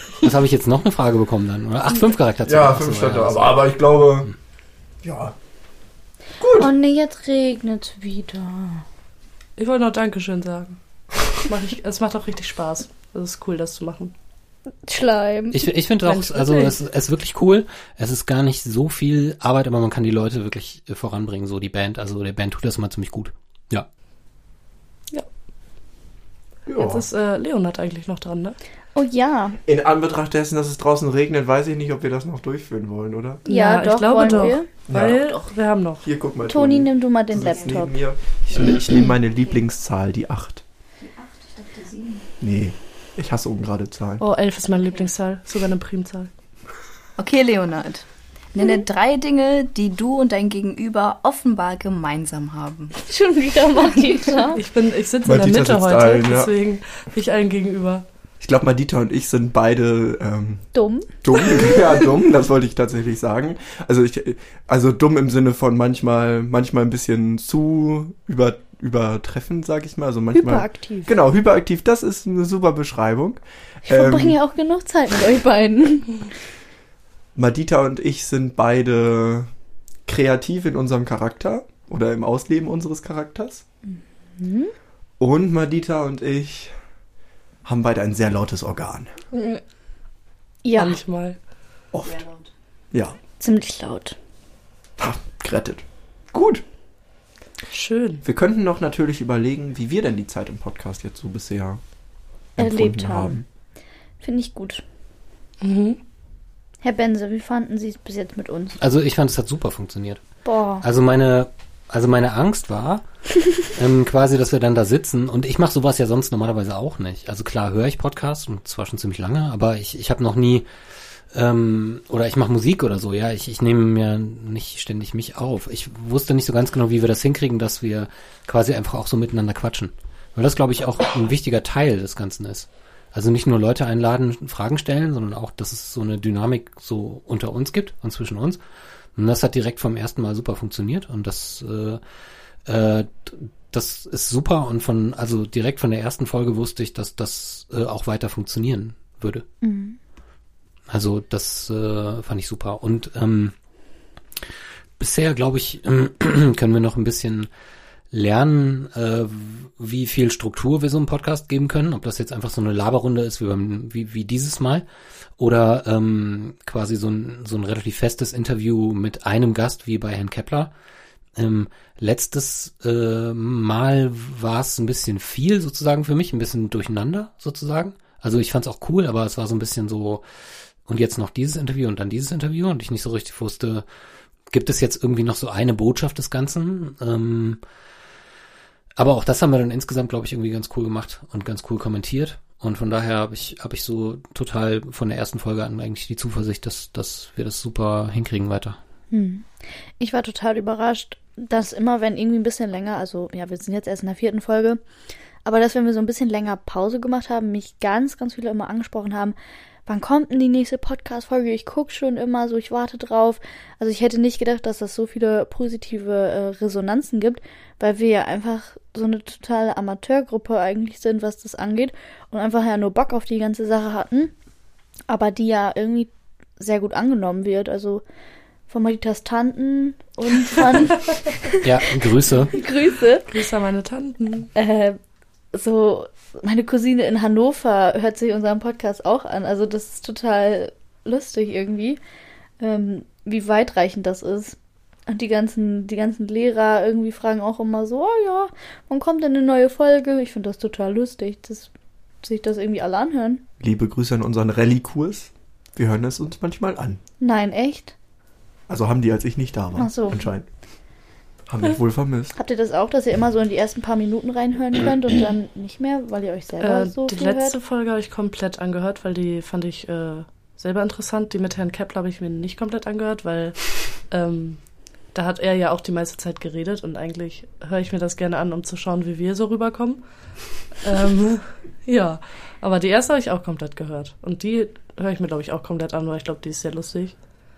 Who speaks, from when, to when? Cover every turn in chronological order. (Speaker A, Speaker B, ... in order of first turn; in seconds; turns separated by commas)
Speaker A: 0.2-3.7, Speaker B: 2.4-4.3, Speaker B: 5.0-5.3, Speaker B: 6.4-6.7, Speaker C: 6.5-8.8, Speaker D: 9.6-10.8, Speaker D: 11.4-14.1, Speaker C: 14.8-15.6, Speaker A: 15.5-23.9, Speaker D: 16.0-16.8, Speaker B: 26.7-27.1, Speaker D: 26.7-28.6, Speaker C: 28.9-29.6, Speaker B: 29.6-33.4, Speaker D: 33.5-36.0, Speaker C: 33.5-34.7, Speaker B: 34.9-35.3, Speaker B: 36.0-40.6, Speaker C: 36.5-38.0, Speaker E: 41.4-42.2, Speaker B: 42.4-44.2, Speaker D: 44.2-46.3, Speaker E: 47.2-53.0, Speaker C: 53.0-54.6, Speaker D: 54.5-58.0, Speaker B: 55.2-56.5, Speaker B: 58.4-60.6, Speaker C: 60.7-61.9, Speaker B: 61.2-74.4, Speaker C: 70.3-71.1, Speaker C: 73.9-76.2, Speaker B: 77.3-79.5, Speaker B: 80.0-83.6, Speaker C: 83.9-84.7, Speaker B: 85.2-86.7, Speaker B: 87.6-89.1, Speaker D: 89.3-89.6, Speaker C: 90.6-91.0, Speaker D: 90.7-91.4, Speaker B: 91.9-92.2, Speaker E: 92.2-92.5, Speaker B: 92.9-93.2, Speaker C: 93.4-94.2, Speaker B: 95.0-96.6, Speaker D: 97.7-98.2, Speaker B: 98.2-101.8, Speaker B: 102.6-103.4, Speaker C: 102.6-103.4, Speaker C: 104.2-104.8, Speaker D: 105.6-106.0, Speaker C: 106.8-108.8, Speaker A: 108.8-110.2, Speaker C: 110.4-110.8, Speaker A: 110.8-113.0, Speaker A: 113.6-120.7, Speaker A: 121.3-138.6, Speaker A: 139.2-142.0, Speaker A: 142.7-149.4, Speaker C: 149.6-150.0, Speaker A: 150.9-153.5, Speaker A: 155.0-157.5, Speaker A: 158.1-164.8, Speaker A: 165.4-170.7, Speaker A: 171.3-180.2, Speaker A: 180.8-183.8, Speaker A: 184.5-187.6, Speaker A: 189.0-198.8, Speaker C: 199.1-199.5, Speaker C: 200.0-204.8, Speaker C: 205.4-224.3, Speaker C: 225.1-228.0, Speaker C: 228.7-233.3, Speaker A: 231.6-232.5, Speaker D: 233.3-234.5, Speaker C: 234.5-235.0, Speaker C: 235.5-242.0, Speaker C: 242.6-244.6, Speaker C: 245.1-251.7, Speaker C: 252.2-253.4, Speaker B: 253.6-257.0, Speaker C: 257.2-257.9, Speaker B: 258.7-260.5, Speaker C: 259.8-260.3, Speaker B: 261.5-262.4, Speaker C: 262.4-267.6, Speaker D: 266.6-273.6, Speaker D: 274.1-274.6, Speaker D: 275.1-280.0, Speaker D: 280.8-287.1